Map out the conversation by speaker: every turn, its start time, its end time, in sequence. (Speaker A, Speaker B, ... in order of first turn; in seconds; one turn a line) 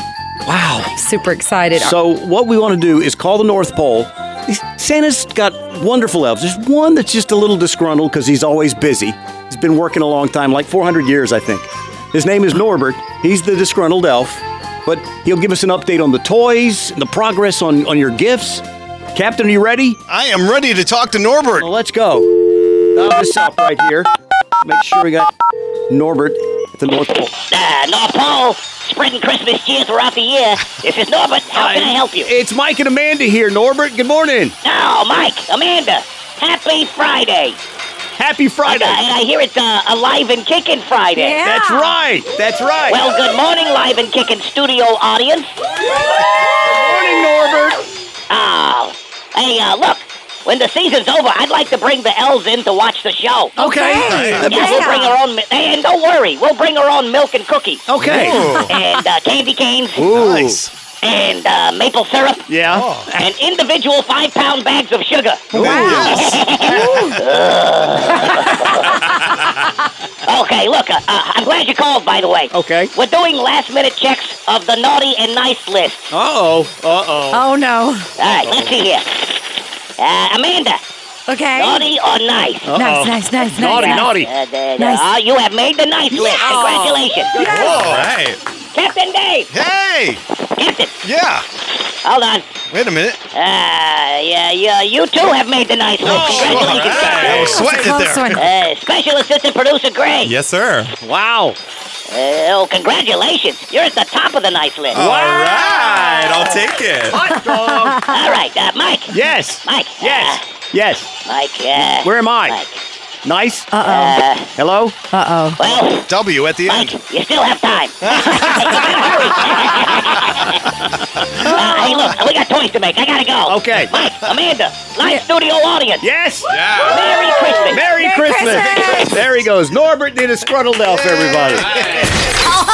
Speaker A: 0.5-1.0
Speaker B: 0.9-2.0
Speaker A: 1.7-20.0
Speaker C: 20.1-21.7
Speaker A: 21.6-24.1
Speaker A: 24.6-25.3
Speaker A: 25.9-27.3
Speaker D: 27.5-32.3
Speaker A: 31.5-34.5
Speaker D: 34.6-37.6
Speaker A: 38.2-39.0
Speaker D: 38.6-41.4
Speaker B: 41.1-42.0
Speaker A: 41.4-43.0
Speaker D: 42.9-45.5
Speaker A: 45.9-47.8
Speaker D: 48.3-53.6
Speaker A: 53.6-54.9
Speaker B: 53.6-55.2
Speaker C: 54.0-54.5
Speaker D: 54.4-60.0
Speaker A: 57.9-58.7
Speaker C: 58.0-58.7
Speaker A: 60.0-60.6
Speaker C: 60.1-60.7
Speaker D: 61.0-62.5
Speaker A: 62.5-63.3
Speaker C: 62.7-63.1
Speaker D: 63.2-69.0
Speaker A: 65.5-67.1
Speaker C: 65.5-67.2
Speaker B: 65.6-66.0
Speaker D: 70.3-76.1
Speaker A: 72.5-72.9
Speaker A: 76.1-77.5
Speaker B: 77.3-78.1
Speaker D: 78.2-79.4
Speaker A: 78.4-78.7
Speaker D: 80.0-80.8
Speaker B: 81.3-81.9
Speaker D: 81.5-82.7
Speaker A: 82.7-84.3
Speaker B: 82.7-84.2
Speaker D: 83.6-87.4
Speaker B: 84.8-85.1
Speaker B: 86.1-87.8
Speaker A: 86.4-86.7
Speaker A: 87.3-88.0
Speaker C: 87.4-88.4
Speaker E: 87.8-88.4
Speaker D: 88.7-89.5
Speaker C: 89.5-90.2
Speaker D: 90.6-90.9
Speaker C: 91.0-91.5
Speaker D: 92.0-92.5
Speaker C: 92.7-93.2
Speaker D: 93.3-97.5
Speaker A: 96.0-97.8
Speaker E: 96.0-97.4
Speaker C: 96.3-98.5
Speaker B: 97.3-98.5
Speaker D: 98.4-100.3
Speaker E: 100.2-100.9
Speaker A: 101.0-101.6
Speaker D: 102.1-105.0
Speaker C: 104.9-105.2
Speaker A: 104.9-108.2
Speaker E: 105.3-107.3
Speaker B: 107.3-108.0
Speaker D: 108.1-109.1
Speaker A: 109.1-111.1
Speaker D: 109.6-110.4
Speaker D: 111.3-112.8
Speaker A: 111.9-112.6
Speaker A: 113.2-115.0
Speaker B: 113.7-114.2
Speaker D: 113.8-114.5
Speaker B: 115.1-115.6
Speaker D: 115.6-116.1
Speaker C: 115.8-117.0
Speaker D: 116.6-120.7
Speaker C: 118.1-120.4
Speaker D: 121.4-126.0
Speaker B: 121.5-122.1
Speaker A: 123.5-123.9
Speaker B: 125.0-125.2
Speaker A: 126.0-126.6
Speaker C: 126.5-127.1
Speaker D: 126.7-127.9
Speaker B: 127.0-129.3
Speaker A: 127.7-132.1
Speaker C: 131.7-132.0